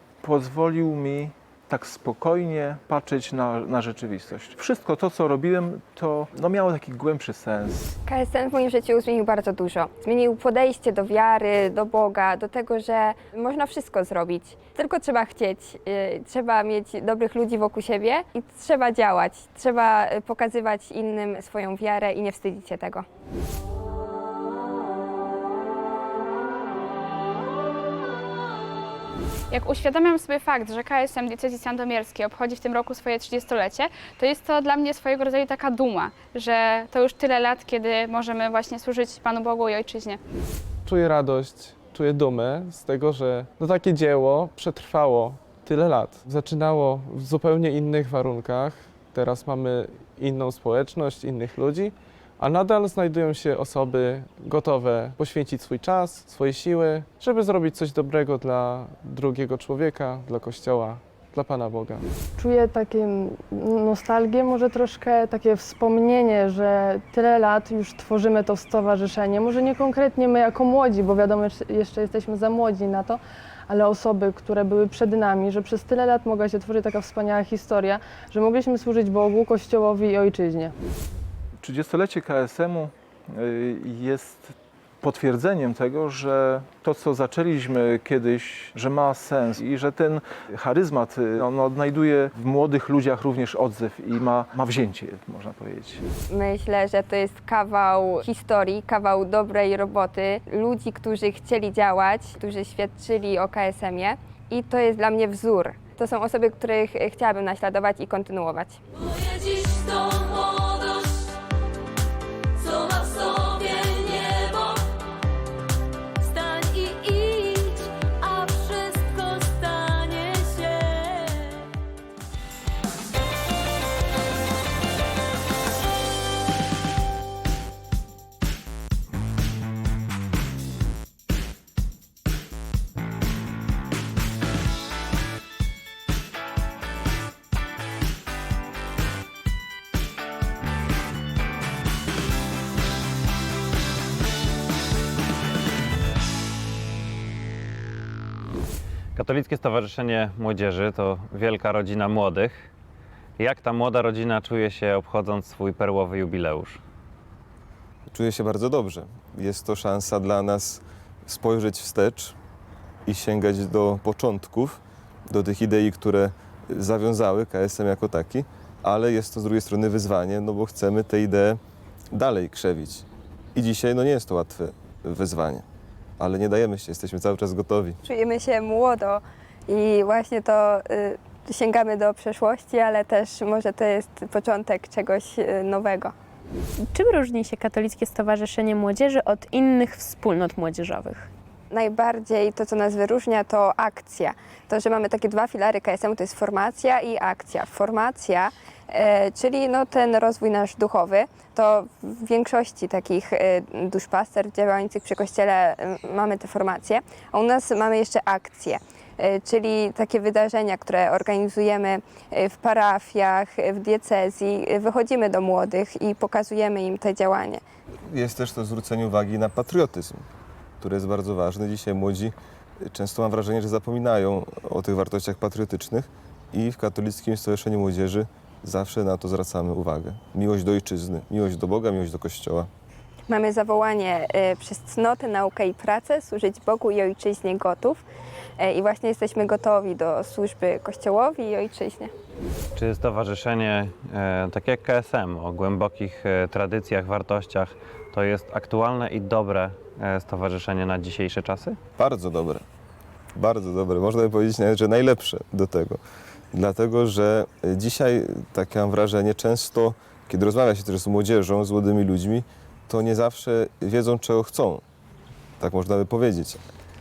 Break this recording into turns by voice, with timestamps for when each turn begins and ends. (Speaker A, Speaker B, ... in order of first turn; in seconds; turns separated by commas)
Speaker A: 0.2-8.0, Speaker B: 8.1-23.1, Speaker C: 29.5-40.2, Speaker D: 40.9-62.0, Speaker E: 62.4-80.7, Speaker A: 81.6-96.0, Speaker B: 96.3-108.8, Speaker F: 109.2-111.3, Speaker F: 112.6-114.8, Speaker F: 116.2-121.6, Speaker G: 149.2-152.7, Speaker G: 153.4-156.8, Speaker H: 158.1-162.3, Speaker H: 163.1-171.6, Speaker H: 172.1-175.6, Speaker H: 176.2-178.0, Speaker B: 178.0-186.1, Speaker I: 186.8-191.3, Speaker B: 191.7-217.6, Speaker H: 218.1-220.2, Speaker H: 220.8-232.7, Speaker B: 233.3-238.0, Speaker B: 238.6-242.1, Speaker G: 242.8-251.8, Speaker H: 252.0-252.6, Speaker H: 253.3-256.0, Speaker H: 256.5-264.8, Speaker H: 265.6-266.6